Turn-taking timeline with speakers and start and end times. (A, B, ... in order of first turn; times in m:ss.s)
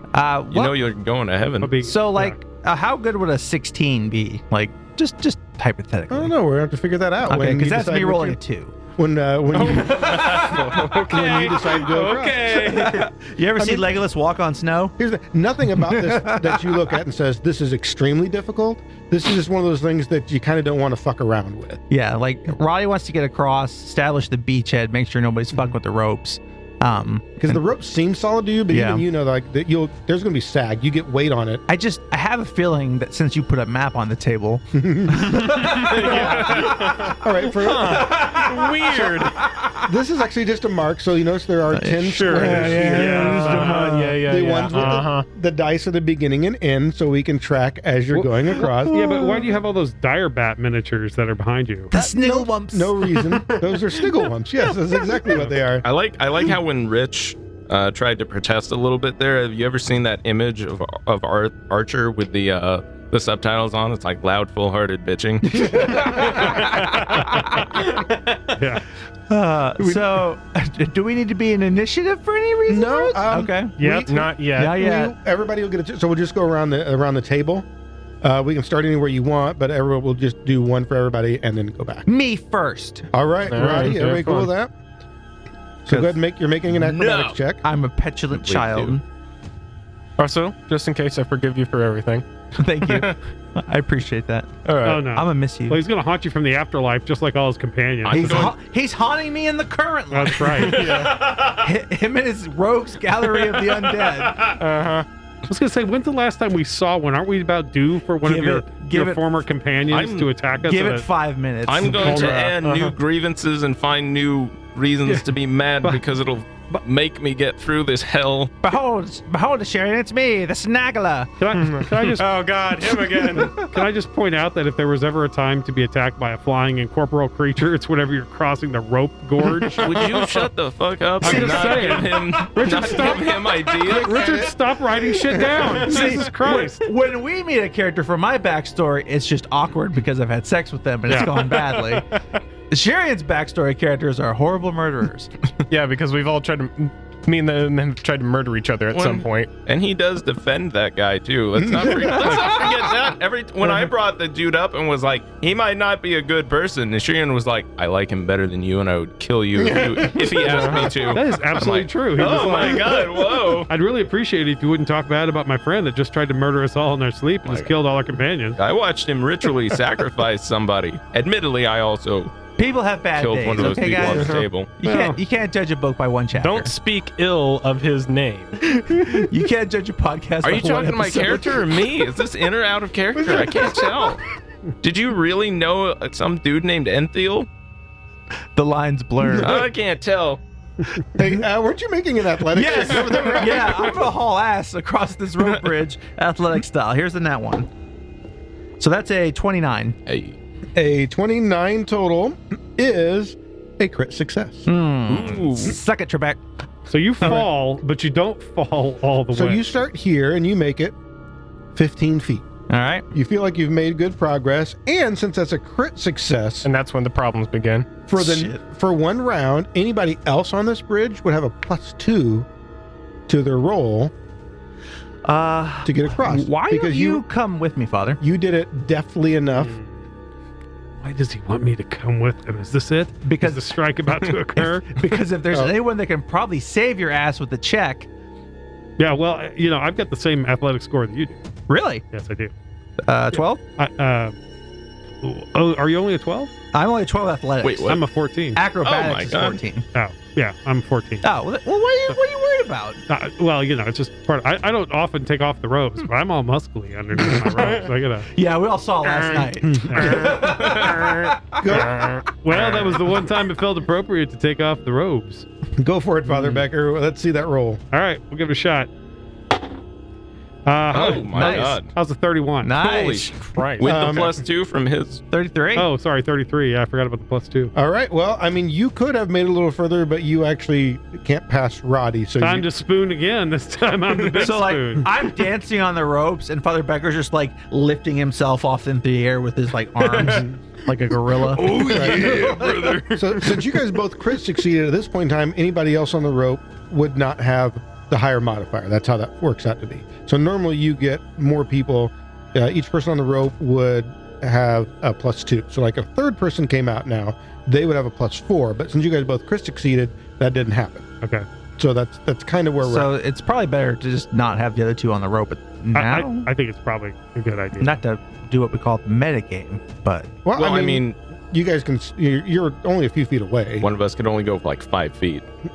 0:00.1-0:00.7 A
0:00.5-0:01.8 B
0:01.6-0:02.4 C
0:01.8-0:06.3 A
0:06.1-0:08.4 D
0:07.2-0:08.7 A
0:09.0-0:12.9 D
0:09.5-0:13.1 E
0:12.5-0:14.9 A
0:13.6-0:13.9 D
0:15.0-0:21.8 D
0:15.8-0:16.8 A
0:21.9-0:27.6 A
0:27.4-0:31.6 D
0:28.7-0:29.0 A
0:31.7-0:37.2 A
0:34.7-0:38.4 D
0:35.7-0:39.4 E
0:36.0-0:36.7 C
0:37.8-0:39.8 A
0:39.8-0:49.4 D
0:41.7-0:44.2 A
0:42.1-0:45.2 E
0:42.2-0:43.9 C
0:44.7-0:45.0 C
0:48.1-0:51.9 C
0:48.9-0:49.4 A
0:51.9-0:53.3 A
0:51.9-0:55.8 D
0:55.8-1:06.3 B
1:05.6-1:06.0 D
1:05.7-1:07.7 A
1:06.2-1:08.0 C
1:08.5-1:08.8 C
1:09.3-1:13.8 A
1:09.8-1:10.2 D
1:12.7-1:17.6 D
1:13.8-1:14.8 E
1:14.5-1:15.1 A
1:18.2-1:22.0 D
1:22.0-1:23.1 A
1:23.1-1:24.7 D
1:23.5-1:24.5 E
1:25.8-1:27.6 D
1:25.9-1:26.2 A
1:26.8-1:27.4 B
1:27.6-1:29.0 A
1:28.4-1:29.0 B
1:30.2-1:32.2 E
1:32.6-1:34.5 A
1:32.8-1:33.2 E
1:34.6-1:35.1 E
1:34.8-1:38.5 C
1:35.1-1:35.8 A
1:38.0-1:38.5 B
1:38.1-1:44.5 A
1:40.1-1:41.6 C
1:40.5-1:41.2 E
1:44.2-1:44.6 C
1:44.6-1:45.0 E
1:45.5-1:51.1 C
1:48.2-1:49.2 A
1:49.9-1:50.3 B
1:50.6-1:52.5 A
1:51.7-1:58.5 B
1:51.9-1:52.5 C
1:52.6-1:52.9 E
1:58.6-2:01.3 A
2:01.4-2:02.3 C
2:01.5-2:03.7 E
2:03.1-2:10.1 C
2:09.6-2:10.5 E
2:09.7-2:14.5 B
2:11.2-2:16.8 C
2:11.3-2:11.6 D
2:11.3-2:11.7 A
2:13.8-2:14.5 D
2:15.2-2:15.7 D
2:15.8-2:22.1 A
2:21.1-2:21.5 C
2:22.7-2:25.3 A
2:25.7-2:29.5 E
2:28.9-2:43.7 B
2:31.6-2:32.6 D
2:39.6-2:40.9 D
2:40.4-2:41.2 E
2:41.1-2:48.6 C
2:47.4-2:47.7 B
2:48.6-2:52.3 B
2:52.6-2:56.7 A
2:53.2-2:54.7 B
2:54.1-2:54.4 E
2:54.8-2:55.2 C
2:56.4-2:58.6 E
2:58.6-3:01.6 A
3:00.4-3:04.2 B
3:03.2-3:04.0 D
3:04.8-3:07.5 B
3:08.6-3:09.6 A
3:09.3-3:09.6 D
3:09.4-3:10.4 B
3:11.1-3:13.9 D
3:12.5-3:17.7 A
3:18.8-3:20.0 A
3:20.0-3:20.4 B
3:20.7-3:24.7 D
3:24.6-3:26.4 A
3:25.1-3:25.8 B
3:26.9-3:29.6 C
3:27.2-3:27.5 D
3:29.3-3:30.9 D
3:31.7-3:32.4 D
3:32.7-3:33.0 A
3:33.1-3:36.7 D
3:36.6-3:37.9 E
3:38.1-3:42.5 D
3:38.2-3:38.6 A
3:43.3-3:44.1 D
3:45.2-3:48.2 A
3:45.8-3:47.2 D
3:48.2-3:49.7 D
3:49.6-3:50.0 C
3:51.0-3:55.0 C
3:53.2-3:53.7 A
3:54.6-3:58.1 A
3:59.0-4:01.4 C
4:01.7-4:02.0 A
4:02.1-4:02.5 C
4:03.0-4:03.6 A
4:03.3-4:04.4 C
4:05.2-4:06.5 C
4:06.7-4:08.0 A
4:07.6-4:08.0 B
4:07.9-4:08.6 C
4:08.5-4:09.8 A
4:08.8-4:09.6 B
4:09.9-4:11.2 C
4:11.2-4:13.0 A
4:13.1-4:18.3 C
4:17.5-4:17.8 E
4:18.3-4:22.0 A
4:19.0-4:20.8 C
4:20.4-4:21.1 B
4:21.6-4:22.2 D
4:21.7-4:22.6 E
4:22.3-4:25.4 C
4:25.8-4:27.8 D
4:27.9-4:28.9 C
4:30.6-4:32.8 C
4:30.9-4:31.9 B
4:31.3-4:31.8 A
4:32.6-4:33.5 A
4:32.8-4:35.2 B
4:33.5-4:34.2 E
4:33.8-4:34.3 D
4:35.3-4:35.9 A
4:35.8-4:37.7 C
4:37.7-4:42.7 D
4:42.4-4:45.1 C
4:44.4-4:52.8 A
4:50.1-4:50.4 E
4:50.2-4:50.6 D
4:51.4-4:53.6 E
4:51.6-4:52.9 B
4:51.8-5:11.1 D
5:11.8-5:13.1 D
5:12.8-5:16.5 A
5:15.9-5:18.0 C
5:17.8-5:20.3 A
5:20.4-5:23.9 D
5:20.5-5:21.2 B
5:23.8-5:25.5 B